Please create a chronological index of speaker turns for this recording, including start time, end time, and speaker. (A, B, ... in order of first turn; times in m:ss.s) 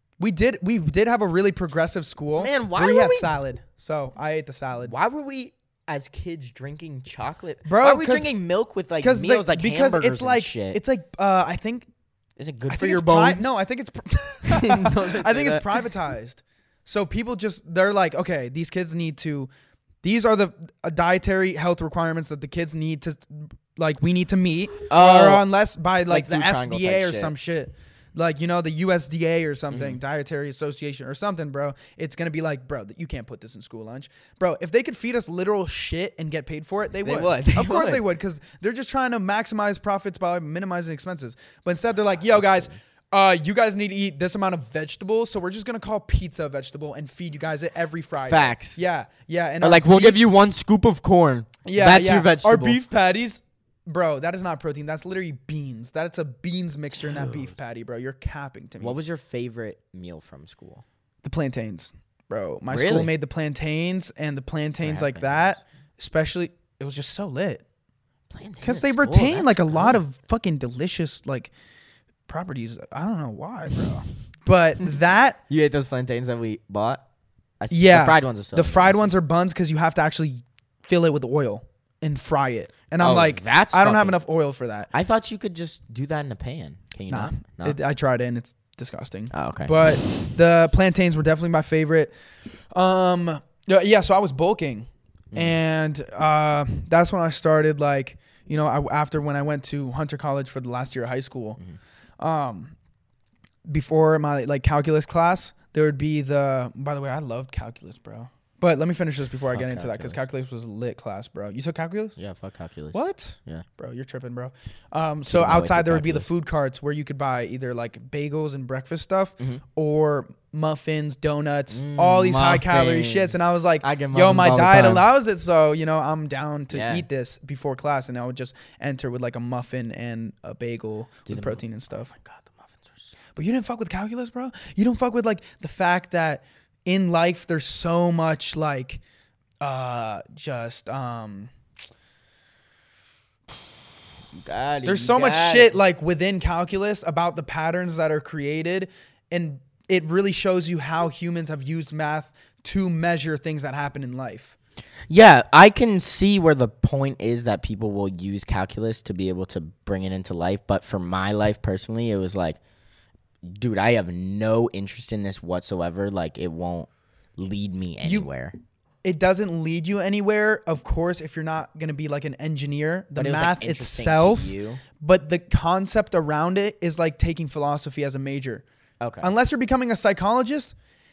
0:00.2-0:05.0 A
0:02.4-0:03.3 B
0:04.9-0:10.8 B
0:07.6-0:08.4 A
0:09.0-0:11.9 A
0:12.4-0:13.6 B
0:12.7-0:19.5 A
0:14.5-0:15.8 B
0:20.0-0:50.2 A
0:24.9-0:25.5 B
0:26.1-0:27.3 B
0:29.7-0:30.0 B
0:37.0-0:38.1 B
0:42.4-0:42.8 B
0:48.2-0:48.8 B
0:49.6-0:52.8 B
0:51.6-0:59.0 A
0:57.0-0:57.5 B
0:58.8-1:00.8 B
1:01.2-1:07.6 A
1:02.7-1:03.1 B
1:04.8-1:05.6 B
1:08.3-1:10.0 B
1:08.6-1:11.5 A
1:12.3-1:15.4 A
1:15.5-1:17.0 B
1:17.6-1:19.2 B
1:17.7-1:24.9 A
1:23.0-1:24.2 B
1:24.9-1:27.8 B
1:27.1-1:32.1 A
1:29.3-1:30.3 B
1:32.7-1:41.6 A
1:42.2-1:42.8 A
1:43.7-1:52.2 A
1:49.5-1:50.2 B
1:52.2-1:53.6 B
1:52.9-2:12.1 A
1:55.3-1:56.3 B
2:01.7-2:05.1 B
2:06.7-2:07.1 B
2:11.3-2:13.2 B
2:13.4-2:19.0 A
2:19.6-2:21.5 A
2:24.4-2:25.8 B
2:24.8-2:34.6 A
2:35.1-2:42.6 B
2:43.4-2:48.6 B
2:48.0-2:48.3 A
2:49.0-2:58.6 A
2:53.2-2:54.8 B
2:59.0-2:59.3 B
2:59.2-3:00.7 A